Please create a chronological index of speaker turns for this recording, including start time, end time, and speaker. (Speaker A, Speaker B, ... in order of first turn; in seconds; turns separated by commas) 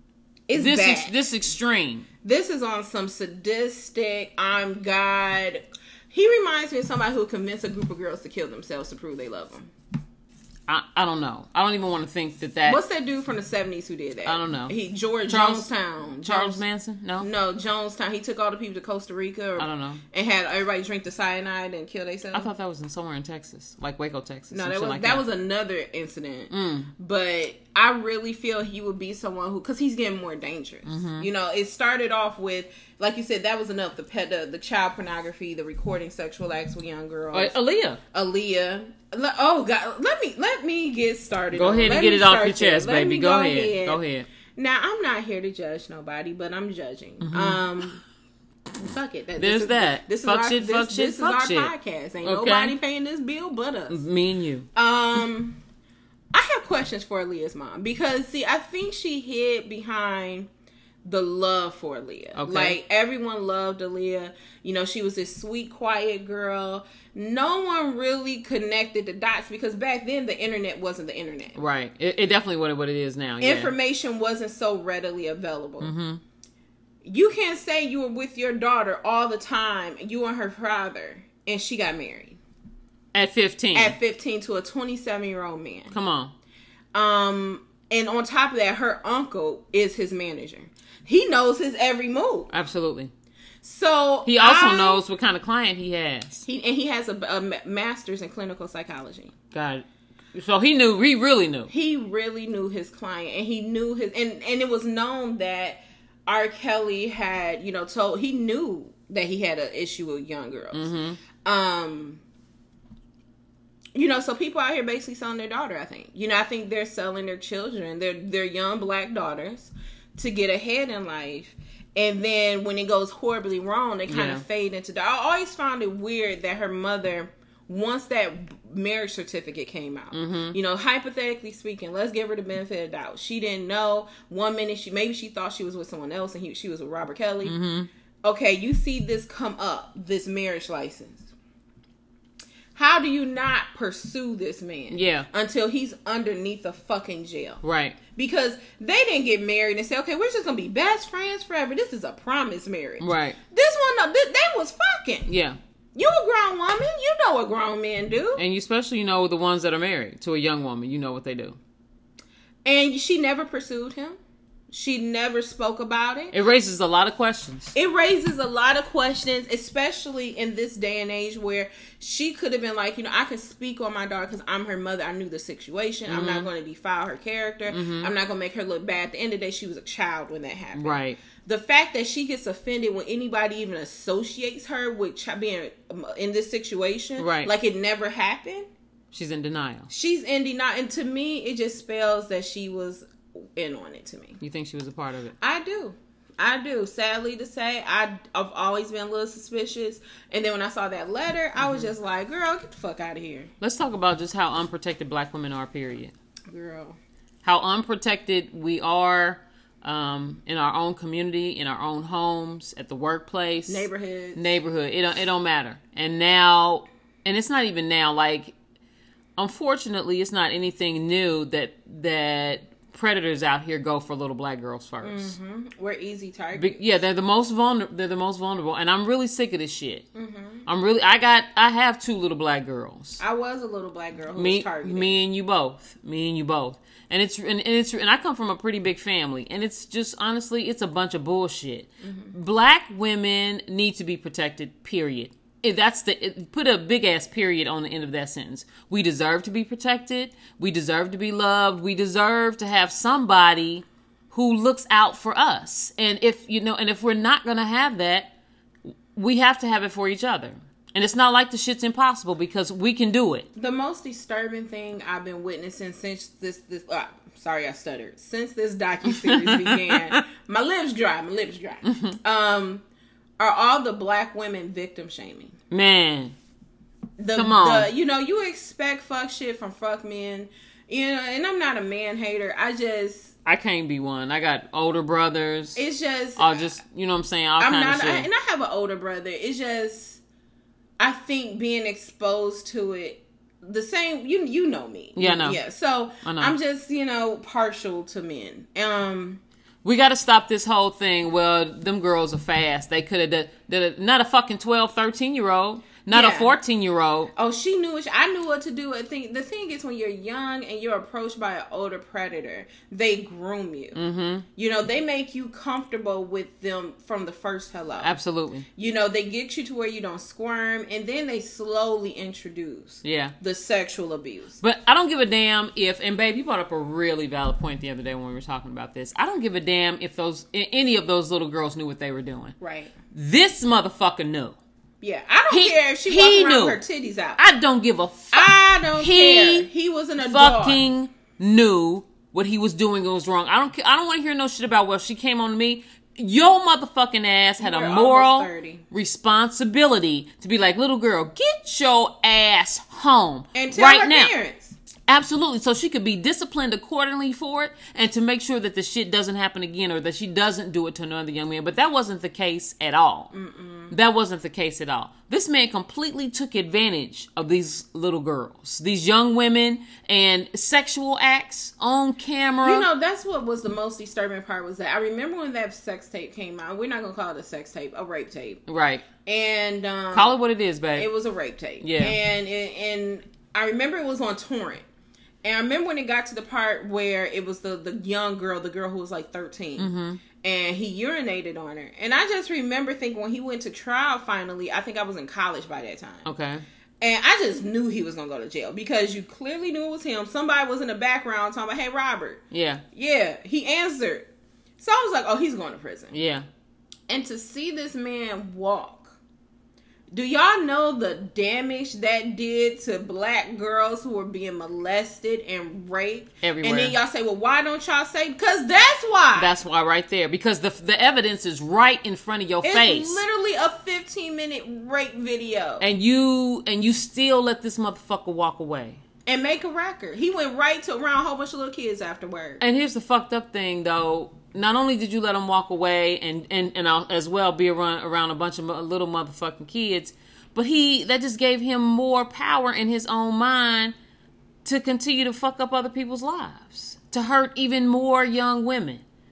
Speaker A: 0.5-1.2, Speaker B: 0.5-2.0, Speaker A: 2.2-9.7, Speaker B: 10.7-12.8, Speaker A: 12.7-16.6, Speaker B: 14.2-14.7, Speaker B: 15.3-15.7, Speaker B: 16.2-17.3, Speaker A: 17.2-22.5, Speaker B: 19.6-20.0, Speaker B: 22.3-25.2, Speaker A: 24.5-37.6, Speaker B: 26.5-26.9, Speaker B: 30.8-31.3, Speaker B: 37.3-38.0, Speaker A: 38.1-44.0, Speaker B: 41.5-44.3, Speaker A: 44.5-48.0, Speaker B: 47.2-47.6, Speaker A: 48.8-54.0, Speaker B: 49.4-52.8, Speaker B: 53.9-54.7, Speaker A: 54.7-55.6, Speaker A: 56.3-60.5, Speaker A: 61.0-71.6, Speaker B: 62.4-62.8, Speaker B: 71.6-73.7, Speaker A: 73.4-75.9, Speaker B: 75.8-76.2, Speaker A: 77.0-82.4, Speaker B: 83.1-84.0, Speaker A: 83.7-85.9, Speaker B: 85.9-86.3, Speaker A: 86.9-92.5, Speaker B: 92.5-93.1, Speaker A: 93.6-95.0, Speaker B: 94.2-96.5, Speaker A: 96.4-99.3, Speaker B: 99.5-101.7, Speaker A: 101.7-110.9, Speaker B: 110.7-111.2, Speaker A: 111.4-112.2, Speaker A: 113.9-137.6, Speaker B: 124.1-124.4, Speaker B: 130.1-130.6, Speaker B: 137.4-137.9, Speaker A: 138.2-141.3, Speaker A: 142.7-147.6, Speaker B: 144.9-145.3, Speaker B: 147.6-148.0, Speaker A: 148.1-155.3, Speaker B: 153.0-153.4, Speaker B: 155.3-155.6, Speaker A: 155.9-158.4, Speaker B: 158.3-161.6, Speaker A: 162.6-164.2, Speaker A: 164.7-166.3, Speaker B: 166.3-167.7, Speaker A: 167.7-188.7, Speaker B: 176.1-176.5, Speaker B: 177.7-178.1, Speaker B: 180.8-181.2, Speaker B: 187.2-187.5, Speaker B: 189.1-189.9, Speaker A: 189.9-194.4, Speaker B: 194.4-195.3, Speaker A: 195.4-203.5, Speaker B: 201.6-201.9, Speaker B: 203.6-206.1, Speaker A: 206.5-207.0, Speaker B: 207.4-218.5, Speaker A: 213.7-214.6, Speaker B: 219.4-225.3, Speaker A: 225.0-226.8, Speaker B: 226.5-230.1, Speaker A: 230.1-230.7, Speaker B: 230.7-233.2, Speaker A: 233.2-235.2, Speaker B: 234.3-258.3, Speaker A: 242.0-242.3, Speaker B: 258.9-263.5, Speaker A: 263.5-272.8, Speaker B: 269.1-270.2, Speaker B: 271.9-272.2, Speaker A: 273.4-275.6, Speaker B: 275.7-276.4, Speaker A: 277.2-283.3, Speaker B: 277.4-277.9, Speaker B: 283.4-285.8, Speaker A: 285.8-286.6, Speaker B: 286.4-288.3, Speaker A: 287.6-290.2, Speaker A: 291.0-299.4, Speaker B: 295.1-295.6, Speaker B: 296.2-296.5, Speaker B: 299.8-307.3, Speaker A: 306.1-306.5, Speaker A: 307.3-314.0, Speaker B: 313.9-314.4, Speaker A: 314.6-318.1, Speaker B: 318.0-318.6, Speaker A: 318.8-324.6, Speaker B: 323.0-323.3, Speaker B: 324.6-332.6, Speaker A: 332.6-332.9, Speaker B: 333.1-334.6, Speaker A: 335.0-337.4, Speaker B: 335.5-336.8, Speaker B: 337.4-339.7, Speaker A: 338.3-340.8, Speaker B: 340.2-354.3, Speaker A: 347.6-348.8, Speaker A: 353.5-354.7, Speaker B: 355.1-363.3, Speaker A: 363.3-363.9, Speaker B: 363.9-372.9, Speaker A: 372.6-378.6, Speaker B: 378.7-379.0, Speaker A: 379.2-380.4, Speaker B: 380.1-381.1, Speaker A: 380.9-384.8, Speaker B: 381.8-382.1, Speaker A: 385.4-396.3, Speaker B: 389.8-390.2, Speaker B: 396.2-396.6, Speaker A: 397.0-402.4, Speaker B: 402.5-402.8, Speaker A: 402.9-404.3, Speaker A: 404.8-406.1, Speaker B: 406.1-406.4, Speaker A: 407.1-409.2, Speaker A: 410.1-419.5, Speaker B: 416.4-416.9, Speaker B: 419.4-423.2, Speaker A: 422.6-425.9, Speaker B: 425.8-429.0, Speaker A: 429.2-432.6, Speaker B: 432.6-443.9, Speaker B: 444.6-449.0